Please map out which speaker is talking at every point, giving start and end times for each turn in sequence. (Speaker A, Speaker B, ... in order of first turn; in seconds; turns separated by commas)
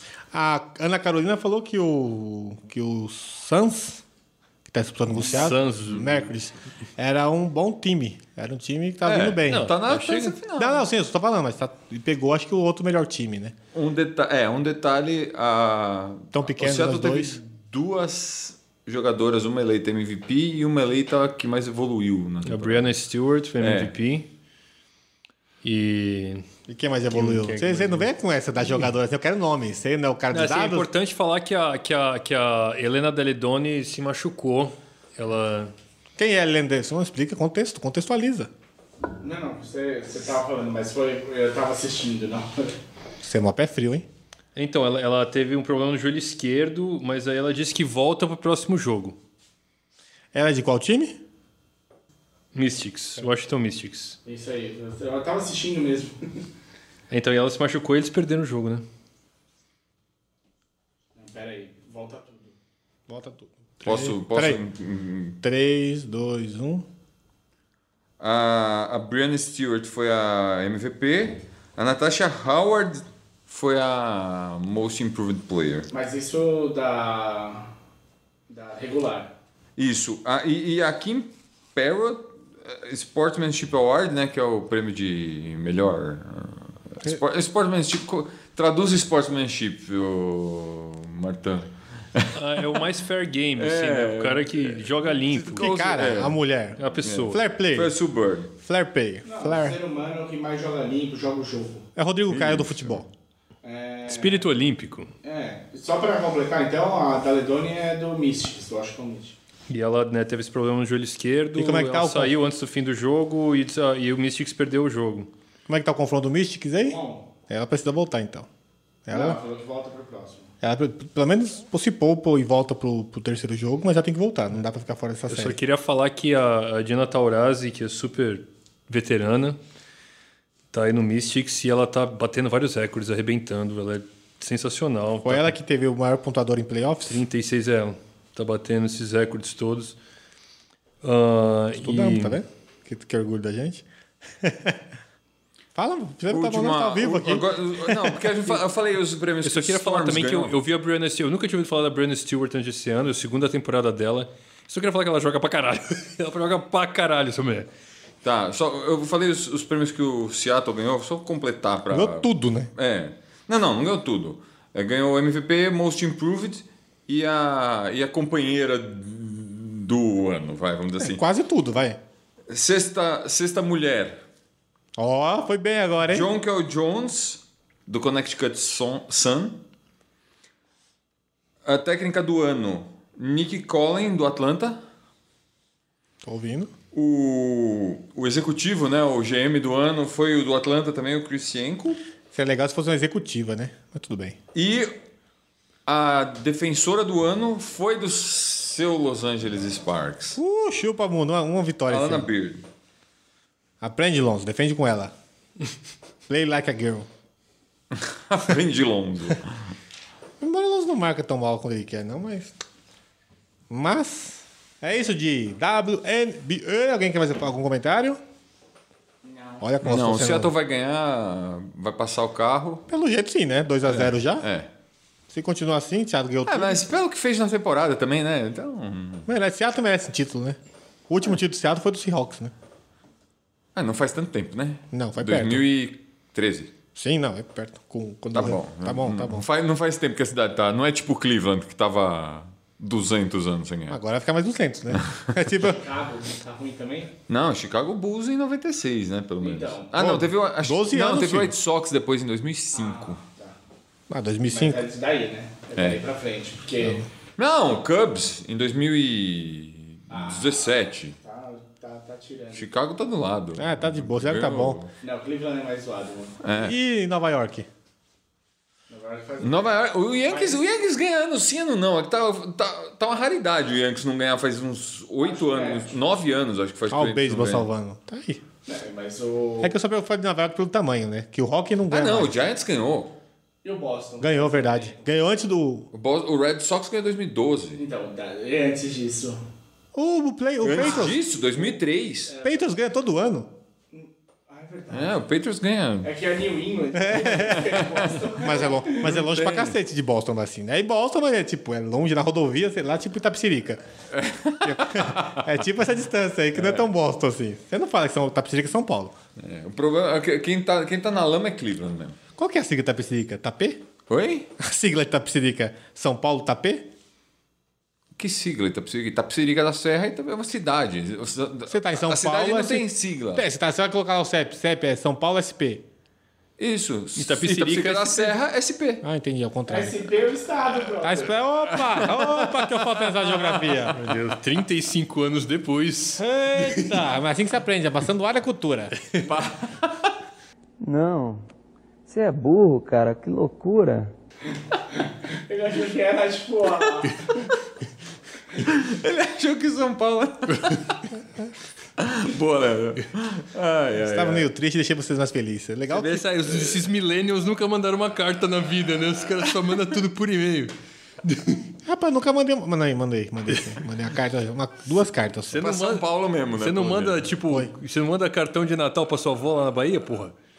Speaker A: 0.3-4.0, Speaker A: 4.7-9.7, Speaker B: 5.2-6.3, Speaker C: 9.1-10.9, Speaker B: 9.5-10.4, Speaker A: 10.6-13.6, Speaker C: 13.7-22.9, Speaker A: 16.3-17.4, Speaker B: 22.4-24.3, Speaker C: 23.6-23.9, Speaker B: 25.6-26.4, Speaker A: 26.7-30.9, Speaker B: 27.1-28.1, Speaker B: 30.3-35.7, Speaker A: 36.2-38.5, Speaker D: 39.2-42.7, Speaker A: 43.2-44.1, Speaker B: 44.5-49.2, Speaker A: 50.3-51.2, Speaker B: 52.5-54.2, Speaker D: 54.2-56.4, Speaker B: 57.1-58.9, Speaker D: 61.1-62.5, Speaker A: 63.1-64.6, Speaker C: 63.8-65.4, Speaker A: 65.4-66.9, Speaker C: 68.2-75.9, Speaker D: 75.9-77.7, Speaker D: 78.5-79.3, Speaker C: 79.8-92.8, Speaker B: 92.3-95.7, Speaker C: 93.6-96.4, Speaker A: 95.5-97.9, Speaker B: 96.8-97.4, Speaker C: 97.0-98.5, Speaker A: 98.6-99.8, Speaker D: 99.2-101.9, Speaker A: 102.0-103.1, Speaker C: 102.3-103.0, Speaker D: 103.6-104.5, Speaker B: 104.1-105.1, Speaker D: 105.2-109.4, Speaker B: 109.7-115.3, Speaker A: 111.5-112.3, Speaker A: 115.7-118.5, Speaker D: 116.8-117.3, Speaker A: 119.1-119.4, Speaker D: 119.1-120.5, Speaker A: 120.6-125.6, Speaker B: 125.3-129.6, Speaker B: 130.7-135.5, Speaker A: 135.2-137.2, Speaker B: 137.1-140.0, Speaker B: 141.0-142.4, Speaker A: 141.8-143.8, Speaker A: 144.4-144.8, Speaker A: 145.7-148.3, Speaker C: 146.3-150.6, Speaker B: 149.4-157.7, Speaker C: 158.2-171.2, Speaker A: 161.9-162.7, Speaker A: 171.0-172.0, Speaker C: 172.5-174.2, Speaker A: 174.9-176.3, Speaker C: 176.1-179.6, Speaker C: 181.6-184.8, Speaker A: 186.2-186.7, Speaker C: 186.9-192.0, Speaker A: 192.3-194.4, Speaker C: 194.6-194.9, Speaker C: 195.9-200.4, Speaker A: 200.4-202.3, Speaker C: 201.9-202.6, Speaker A: 203.8-205.1, Speaker A: 206.3-207.1, Speaker C: 207.9-209.7, Speaker A: 210.4-212.5, Speaker A: 213.7-218.2, Speaker D: 219.2-219.7, Speaker A: 219.6-220.5, Speaker C: 219.8-222.8, Speaker A: 222.9-224.5, Speaker C: 223.9-224.7, Speaker A: 225.3-226.9, Speaker C: 226.4-229.3, Speaker A: 229.2-230.6, Speaker A: 231.1-232.5, Speaker C: 233.7-236.7, Speaker A: 234.9-235.6, Speaker A: 236.9-239.4, Speaker C: 238.3-244.0, Speaker A: 243.9-245.8, Speaker C: 244.9-245.3, Speaker D: 245.6-247.1, Speaker C: 247.3-253.2, Speaker D: 249.4-249.9, Speaker A: 249.9-251.6, Speaker D: 252.7-253.6, Speaker A: 254.1-254.8, Speaker D: 254.5-257.1, Speaker C: 255.8-256.0, Speaker A: 256.8-257.1, Speaker C: 257.4-261.1, Speaker D: 260.1-262.6, Speaker C: 262.6-264.9, Speaker A: 263.6-264.8, Speaker D: 265.0-266.4, Speaker C: 266.4-266.7, Speaker A: 266.6-267.7, Speaker D: 268.9-270.7, Speaker C: 269.4-277.7, Speaker D: 275.2-275.9, Speaker A: 276.9-278.4, Speaker D: 278.6-279.7, Speaker A: 279.6-282.3, Speaker C: 281.9-283.1, Speaker D: 283.6-285.0, Speaker A: 284.2-285.9, Speaker C: 285.9-287.8, Speaker D: 287.8-289.4, Speaker A: 289.9-291.2, Speaker C: 290.6-292.3, Speaker D: 290.8-292.6, Speaker A: 292.4-293.5, Speaker D: 293.9-295.2, Speaker C: 294.9-296.1, Speaker D: 296.0-299.1, Speaker A: 296.9-297.7, Speaker C: 297.5-298.1, Speaker A: 298.4-303.8, Speaker C: 299.0-299.7, Speaker C: 304.1-305.5, Speaker A: 304.6-309.1, Speaker C: 306.6-306.9, Speaker C: 309.4-312.2, Speaker A: 312.4-313.8, Speaker C: 314.1-314.5, Speaker A: 314.6-316.9, Speaker C: 318.2-323.4, Speaker A: 321.7-325.9, Speaker C: 326.6-329.0, Speaker B: 327.1-328.4, Speaker A: 329.0-330.0, Speaker D: 329.7-331.4, Speaker A: 331.0-334.0, Speaker C: 331.7-333.9, Speaker B: 333.9-336.9, Speaker A: 336.2-339.2, Speaker C: 339.2-340.1, Speaker E: 340.8-341.5, Speaker E: 342.1-344.1, Speaker D: 344.9-347.5, Speaker C: 348.6-351.1, Speaker C: 352.0-354.5, Speaker A: 354.0-356.2, Speaker B: 355.9-361.6, Speaker C: 356.1-356.8, Speaker A: 361.9-365.6, Speaker B: 365.5-370.4, Speaker C: 365.6-367.3